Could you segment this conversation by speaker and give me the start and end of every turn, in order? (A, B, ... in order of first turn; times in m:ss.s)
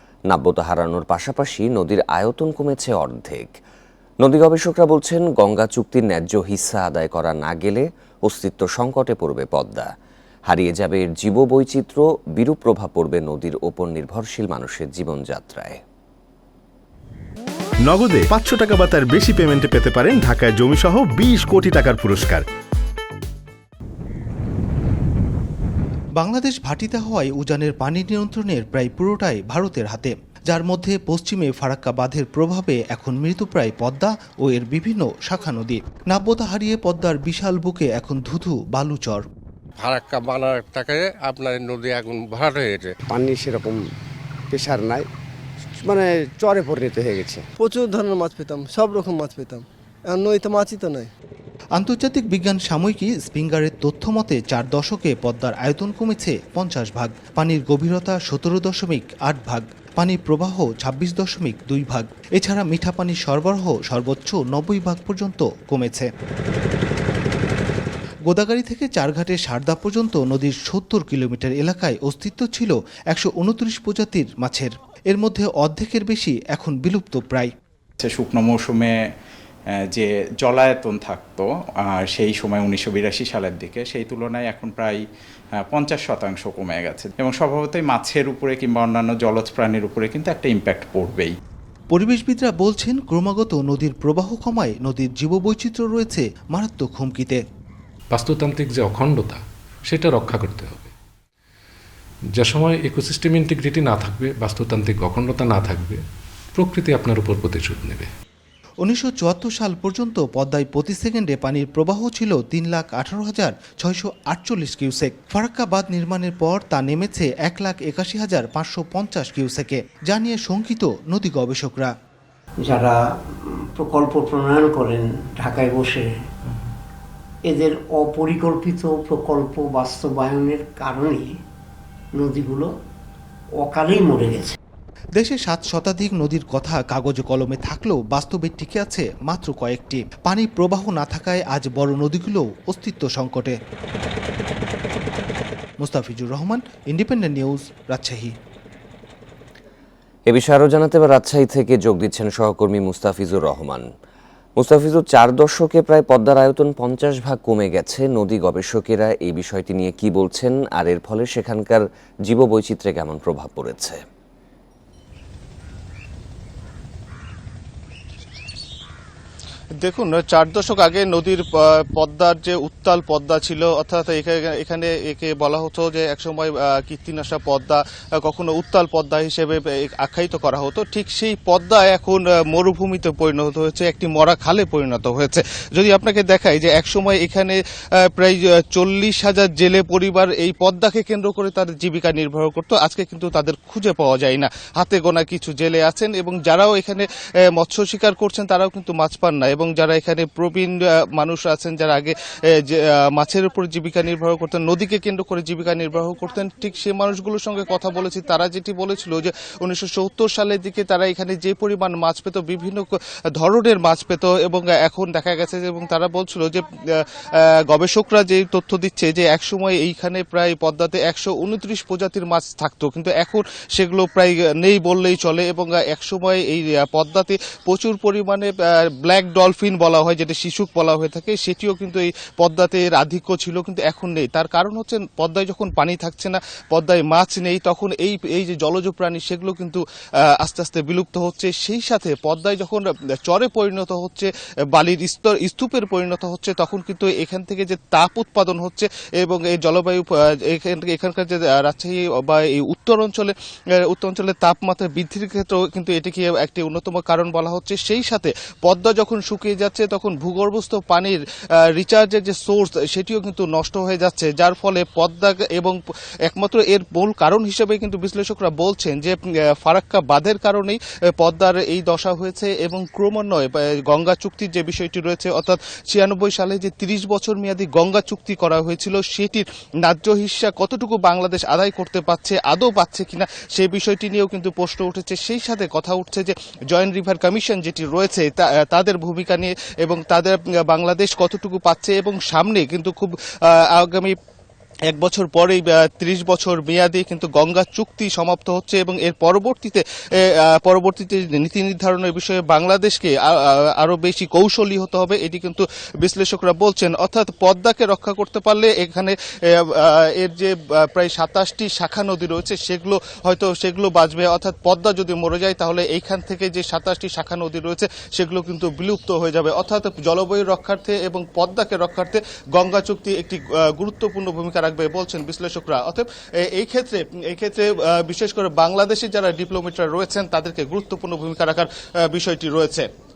0:00.3-0:03.5 A
0:04.2-0:09.9 A
0:10.5-0:15.8 A
0:17.8-0:22.4 B
0:26.2-0:39.2 C
0:39.8-0:42.9 D
0:43.1-0:43.9 E
0:44.5-0:45.1 E
0:45.8-0:47.4 E
0:47.6-0:51.1 F
0:51.8-1:06.1 C
1:08.3-1:17.5 C
1:18.0-1:18.9 G
1:19.9-1:25.0 G
1:25.6-1:31.4 G
1:31.9-1:37.4 C
1:38.1-1:40.9 H
1:42.4-1:46.0 H
1:46.6-1:48.0 H
1:48.8-2:01.9 C
2:02.6-2:03.0 I
2:03.8-2:06.1 I
2:07.5-2:11.2 I
2:12.2-2:12.7 I
2:13.6-2:14.6 I
2:15.2-2:23.5 C
2:25.8-2:28.3 C
2:30.3-2:33.8 A
2:34.6-2:44.0 A
2:49.8-3:07.6 J
3:08.1-3:59.8 J
4:00.4-4:21.2 J
4:21.7-4:25.8 J
4:26.3-4:54.1 J
4:54.9-4:59.8 J
5:00.4-5:32.9 J